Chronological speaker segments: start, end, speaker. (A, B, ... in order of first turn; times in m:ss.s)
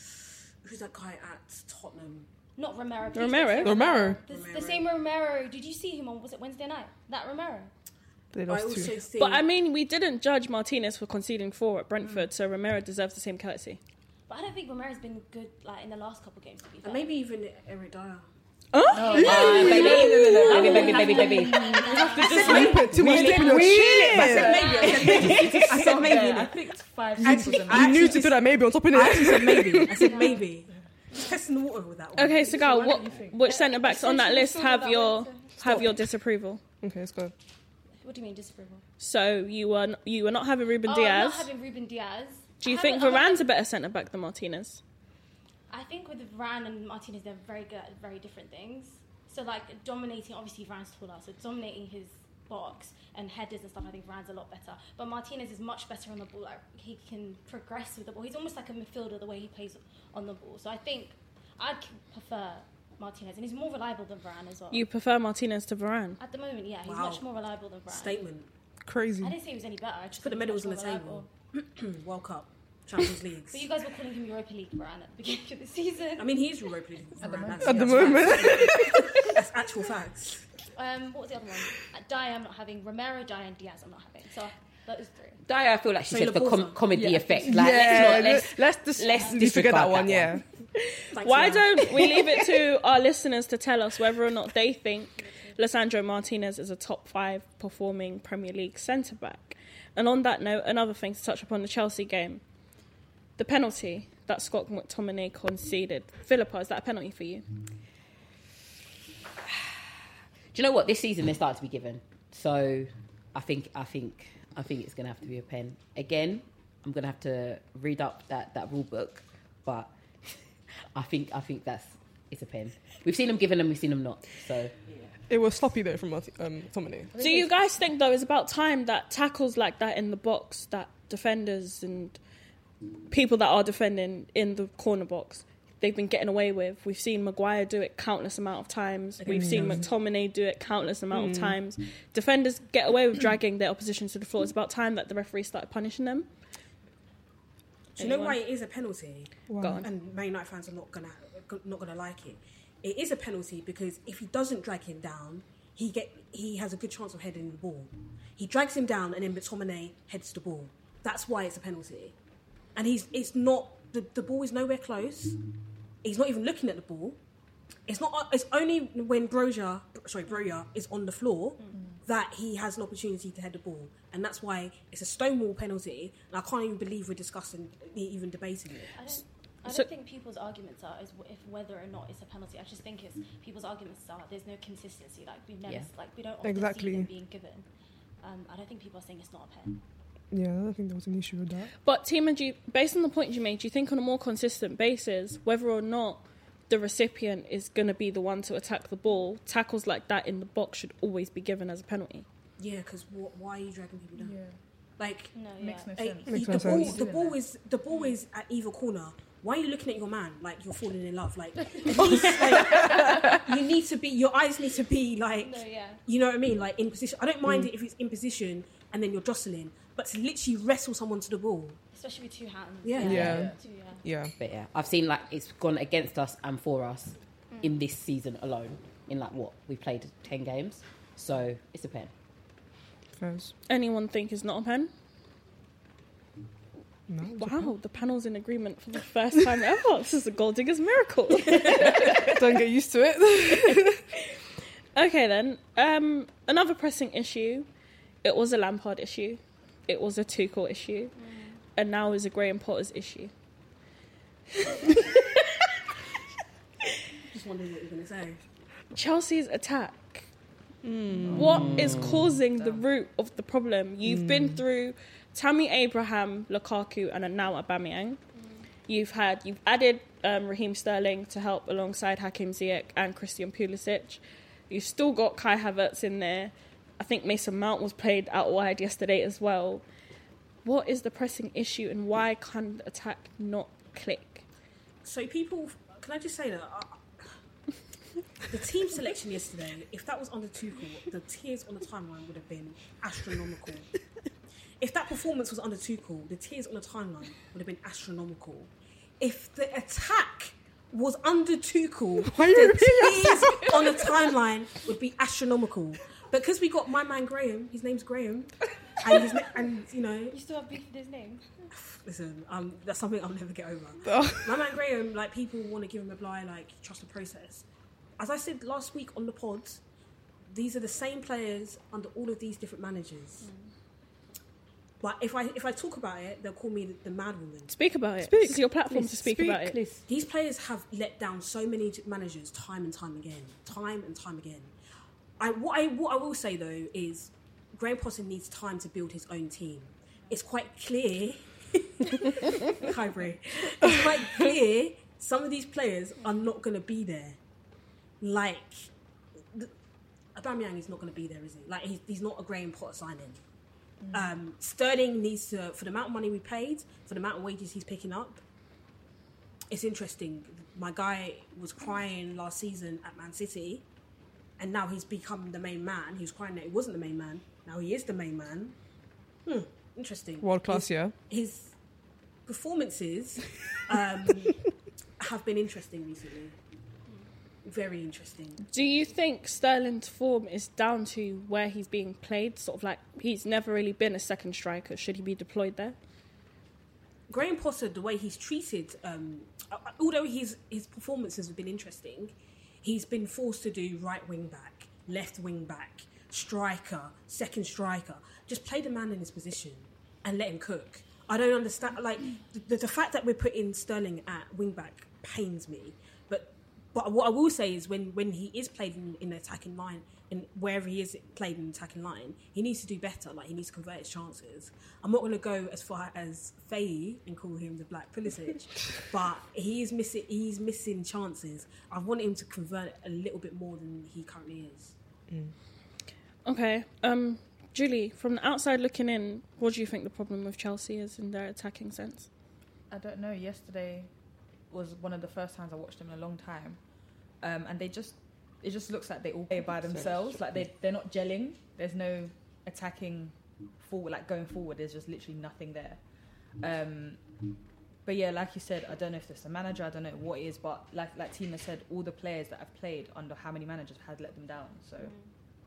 0:00.6-0:02.3 A
0:02.6-0:07.7 B
0:03.1-0:03.8 C
0:03.6-0:04.2 D
0:04.2-0:04.9 A
0:08.3-0:09.0 D
0:08.5-0:09.4 A
0:09.2-0:13.8 C
0:14.3-0:17.1 B
0:16.8-0:18.2 A
0:18.7-0:19.7 C
0:18.9-0:28.3 E
0:19.1-0:21.7 F
0:19.4-0:20.1 D
0:19.7-0:23.3 B
0:21.8-0:26.6 A
0:22.2-0:24.7 D
0:24.4-0:25.3 B
0:27.2-0:32.6 A
0:27.2-0:30.2 D
0:30.1-0:30.4 B
0:32.2-0:36.6 C
0:32.4-0:33.4 E
0:33.4-0:35.6 B
0:35.6-0:36.0 D
0:36.8-0:37.3 D
0:38.0-0:38.8 B
0:39.0-0:41.5 C
0:40.8-0:43.4 B
0:42.6-0:44.8 C
0:45.7-1:04.8 B
1:04.7-1:06.2 C
1:06.2-1:08.2 B
1:06.8-1:07.3 A
1:07.9-1:08.5 A
1:08.8-1:09.4 D
1:09.2-1:11.3 B
1:10.2-1:13.7 A
1:13.5-1:16.4 B
1:16.2-1:20.4 A
1:17.2-1:18.7 E
1:17.6-1:19.4 D
1:18.0-1:18.9 B
1:20.7-1:25.4 B
1:25.4-1:30.4 F
1:26.0-1:26.8 A
1:26.9-1:28.3 E
1:27.4-1:30.4 D
1:29.2-1:29.4 B
1:31.1-1:32.2 A
1:31.2-1:42.4 C
1:35.2-1:35.5 B
1:43.4-1:47.4 C
1:50.5-1:59.9 F
2:00.9-2:04.7 F
2:04.9-2:05.1 E
2:05.3-2:07.1 D
2:07.1-2:07.8 E
2:07.2-2:12.2 C
2:13.1-2:26.3 C
2:19.2-2:19.9 A
2:19.3-2:19.8 D
2:21.1-2:21.6 D
2:28.0-2:28.4 C
2:28.0-2:42.1 A
2:29.5-2:29.8 D
2:29.6-2:29.9 C
2:42.7-2:45.4 A
2:46.0-2:47.2 A
2:47.9-2:59.0 A
2:58.9-3:07.6 B
3:06.4-3:07.1 D
3:08.2-3:09.8 B
3:10.3-3:11.7 D
3:11.8-3:22.2 C
3:22.6-3:24.4 A
3:24.2-3:24.6 E
3:25.0-3:41.8 A
3:25.3-3:25.9 B
3:25.6-3:27.4 E
3:26.3-3:27.0 D
3:32.7-3:33.1 E
3:35.4-3:36.0 B
3:41.9-3:44.0 B
3:42.8-3:43.5 A
3:43.0-3:44.3 D
3:43.0-3:43.6 E
3:44.4-3:52.1 F
3:47.5-3:47.8 B
3:53.2-3:53.5 D
3:53.7-3:54.9 C
3:57.1-3:57.7 D
3:57.4-4:02.3 C
4:02.2-4:04.0 D
4:04.9-4:07.7 C
4:08.2-4:11.1 C
4:11.2-4:11.6 B
4:11.8-4:13.3 C
4:17.3-4:18.4 A
4:18.9-4:20.3 C
4:20.8-4:21.6 D
4:21.2-4:22.8 E
4:21.3-4:28.2 C
4:21.4-4:22.3 F
4:24.0-4:24.6 D
4:28.3-4:28.6 B
4:28.9-4:39.8 C
4:40.6-4:44.4 C
4:45.0-4:47.0 A
4:48.5-4:53.9 A
4:54.8-5:10.4 A
5:02.2-5:04.1 D
5:10.3-5:11.7 B
5:11.9-5:17.6 A
5:14.0-5:14.7 D
5:18.2-5:19.8 A
5:20.5-5:23.5 A
5:23.4-5:23.7 B
5:25.0-5:27.7 A
5:27.7-5:29.8 C
5:28.2-5:30.0 D
5:30.1-5:34.7 A
5:35.4-5:47.4 A
5:48.2-5:48.9 A
5:50.4-5:53.4 A
5:54.1-5:58.4 A
5:59.7-6:03.8 A
6:04.6-6:08.7 A
6:09.4-6:11.7 A
6:10.4-6:11.1 D
6:12.4-6:14.6 A
6:15.2-6:16.6 A
6:17.6-6:18.6 A
6:18.7-6:26.0 C
6:27.3-7:04.9 A
7:06.4-7:12.3 C
7:12.9-7:14.1 E
7:14.7-7:16.8 E
7:17.4-7:26.0 E
7:19.6-7:20.4 D
7:26.6-7:27.4 E
7:28.0-7:35.1 E
7:35.0-7:35.3 B